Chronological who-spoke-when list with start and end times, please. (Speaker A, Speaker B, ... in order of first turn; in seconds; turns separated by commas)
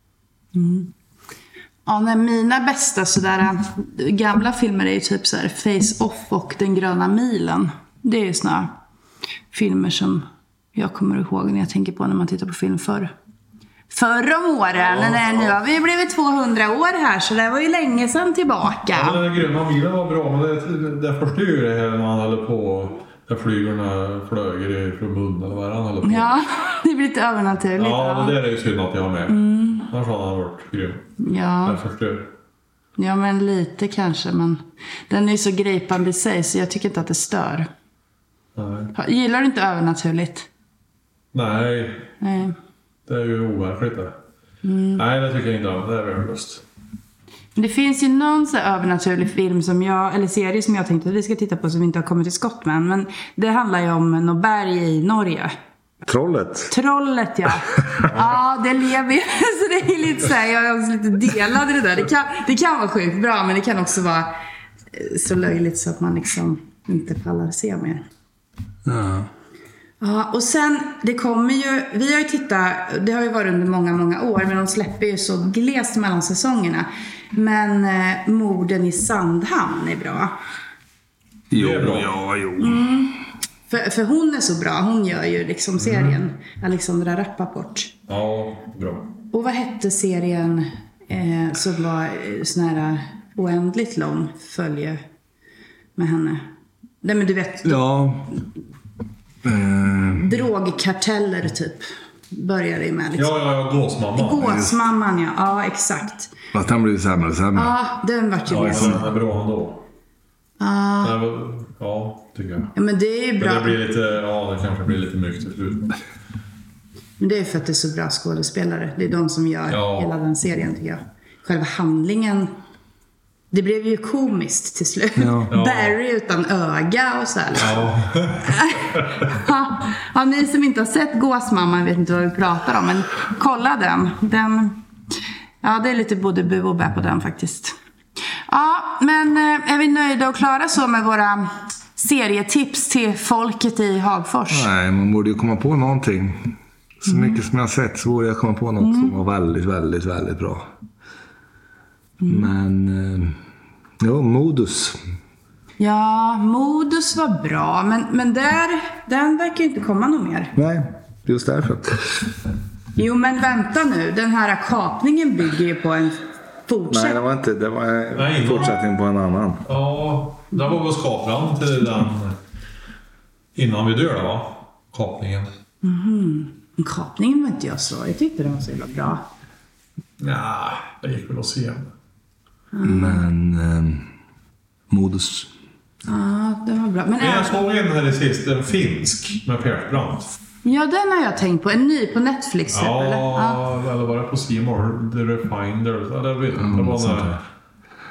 Speaker A: 0.5-0.9, Speaker A: 1.9-8.7, Speaker A: 9.5-13.1, Speaker A: 13.9-19.2, Speaker B: 14.7-15.6, Speaker B: 18.9-26.4, Speaker A: 26.0-28.4, Speaker B: 27.8-31.1, Speaker A: 29.3-29.9, Speaker A: 31.2-31.8, Speaker B: 31.7-32.3, Speaker A: 33.0-37.7, Speaker B: 38.6-38.9, Speaker A: 39.0-40.5, Speaker B: 41.3-42.1, Speaker A: 42.2-42.5, Speaker B: 43.1-44.1, Speaker A: 44.6-45.0, Speaker B: 45.0-46.6, Speaker A: 47.6-55.5, Speaker C: 56.1-56.7, Speaker A: 56.7-64.3, Speaker A: 64.9-68.0, Speaker C: 68.9-69.3, Speaker A: 70.0-80.3, Speaker B: 81.5-82.1, Speaker C: 81.5-82.9, Speaker A: 82.6-83.2, Speaker A: 83.7-88.0, Speaker B: 85.8-86.2, Speaker B: 88.1-89.1, Speaker A: 89.3-95.0, Speaker A: 96.0-96.4, Speaker A: 97.0-97.8, Speaker C: 97.7-98.4, Speaker C: 99.4-100.3, Speaker A: 100.1-103.3, Speaker B: 103.2-104.5, Speaker A: 104.1-106.3, Speaker C: 104.4-104.8, Speaker C: 106.5-107.8, Speaker A: 107.5-109.0, Speaker B: 108.5-109.8, Speaker C: 108.6-109.0, Speaker A: 110.6-111.2, Speaker B: 111.0-112.7, Speaker A: 112.8-113.8, Speaker B: 113.4-116.0, Speaker A: 117.2-122.5, Speaker B: 119.7-120.1, Speaker A: 123.5-134.8, Speaker C: 125.2-125.5, Speaker B: 125.5-126.0, Speaker B: 127.6-128.5, Speaker A: 135.6-137.8, Speaker A: 138.5-144.7, Speaker C: 144.5-150.7, Speaker A: 147.1-147.4, Speaker A: 148.8-149.2, Speaker A: 152.2-152.5, Speaker C: 152.3-153.3, Speaker C: 154.0-155.0, Speaker A: 155.8-160.5, Speaker C: 160.6-161.9, Speaker A: 163.0-167.2, Speaker C: 166.9-169.6, Speaker B: 168.2-168.8, Speaker B: 169.7-172.3, Speaker B: 173.6-175.5, Speaker A: 175.8-179.2, Speaker B: 180.2-181.9, Speaker A: 182.7-183.2, Speaker C: 182.8-184.1, Speaker C: 184.9-185.5, Speaker A: 186.1-187.6, Speaker B: 187.2-190.3, Speaker A: 190.6-193.6, Speaker B: 192.7-197.4, Speaker C: 196.6-197.3